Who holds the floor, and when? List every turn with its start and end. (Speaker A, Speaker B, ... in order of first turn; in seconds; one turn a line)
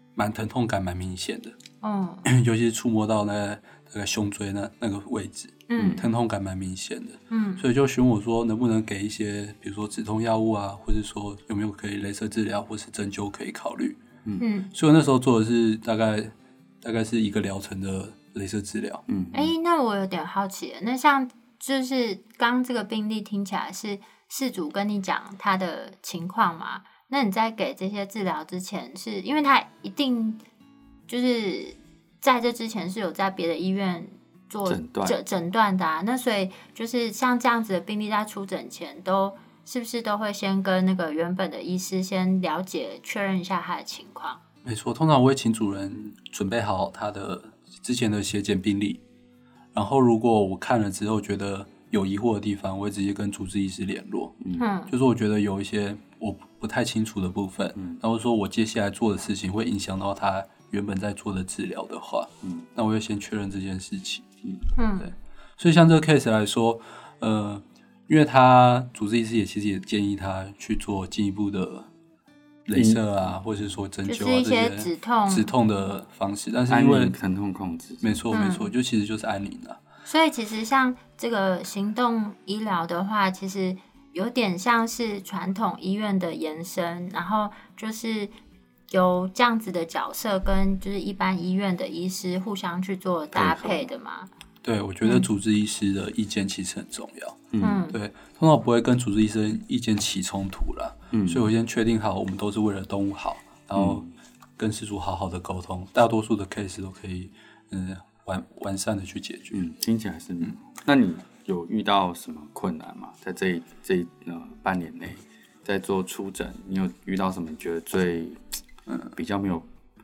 Speaker A: 0.2-1.6
Speaker B: 1.8-2.2
Speaker A: 2.2-14.0
Speaker B: 5.7-6.0
Speaker C: 5.8-6.0
Speaker B: 7.3-7.6
Speaker B: 14.4-14.7
Speaker A: 14.7-19.0
Speaker C: 19.1-19.5
Speaker B: 19.3-30.4
Speaker B: 31.1-44.4
Speaker C: 34.7-35.2
Speaker A: 44.6-49.0
Speaker A: 49.7-64.3
Speaker B: 54.6-54.9
Speaker B: 64.8-65.1
Speaker A: 65.6-71.9
Speaker A: 72.7-77.2
Speaker C: 72.7-73.0
Speaker B: 74.1-75.5
Speaker C: 76.7-78.2
Speaker A: 78.0-79.8
Speaker B: 78.3-78.7
Speaker B: 80.1-88.3
Speaker B: 88.9-94.3
Speaker C: 93.3-93.9
Speaker A: 94.6-104.1
Speaker C: 97.5-97.8
Speaker B: 97.6-98.0
Speaker C: 101.1-101.5
Speaker C: 103.8-104.1
Speaker A: 104.6-109.6
Speaker C: 109.5-118.5
Speaker C: 119.1-119.7